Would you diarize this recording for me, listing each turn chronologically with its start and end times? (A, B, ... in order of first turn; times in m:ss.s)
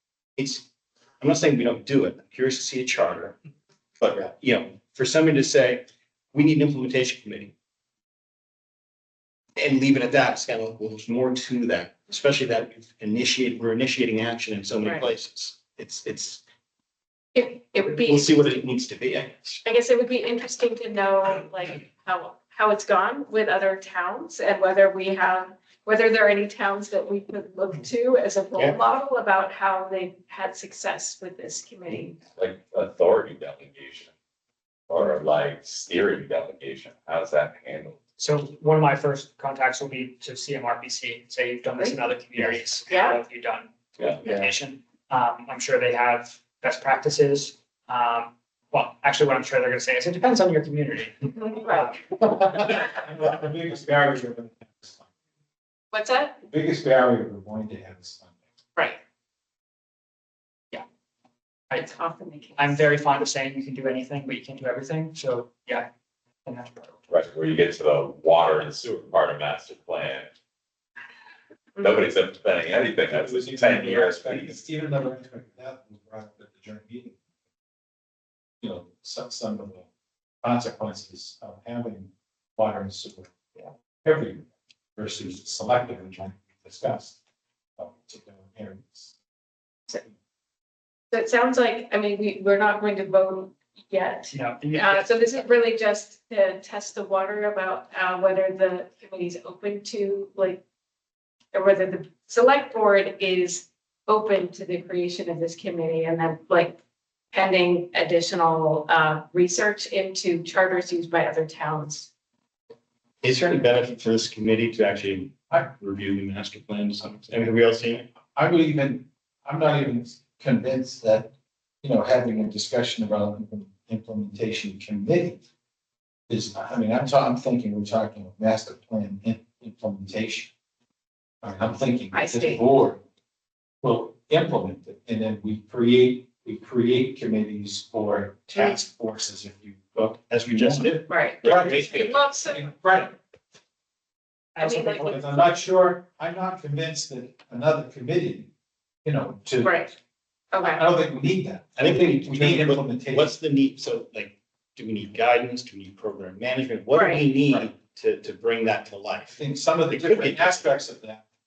0:00.4-0:00.6 A
0:01.2-0:03.4 A
0:04.0-0:07.5 A
0:09.6-0:16.4 A
0:17.3-0:18.4 B
0:17.9-0:19.6 A
0:19.6-0:32.2 B
0:32.4-0:34.1 C
0:34.9-0:38.0 C
0:38.2-0:52.0 D
0:42.9-0:43.2 B
0:51.3-0:51.9 B
0:52.2-0:55.1 E
0:55.9-0:56.4 B
0:56.5-0:58.4 E
1:01.7-1:02.8 B
1:02.6-1:05.9 D
1:06.4-1:07.0 D
1:07.1-1:10.3 C
1:11.8-1:14.6 C
1:13.0-1:17.2 E
1:18.6-1:19.9 E
1:20.4-1:23.4 E
1:24.0-1:24.4 E
1:25.0-1:27.2 E
1:27.8-1:29.1 E
1:31.1-1:40.6 B
1:34.3-1:35.4 D
1:41.5-1:46.8 B
1:47.3-1:52.1 B
1:53.2-1:58.1 A
1:58.3-2:05.4 E
2:06.3-2:10.5 E
2:11.4-2:13.0 E
2:12.1-2:12.7 B
2:13.8-2:23.2 E
2:18.5-2:18.8 B
2:19.9-2:22.2 A
2:21.1-2:22.6 B
2:24.5-2:25.4 D
2:24.6-2:25.2 B
2:25.0-2:28.5 E
2:29.0-2:29.8 E
2:29.6-2:29.9 B
2:30.5-2:30.8 B
2:30.6-2:33.3 E
2:31.8-2:40.6 A
2:36.9-2:37.2 B
2:39.4-2:41.2 E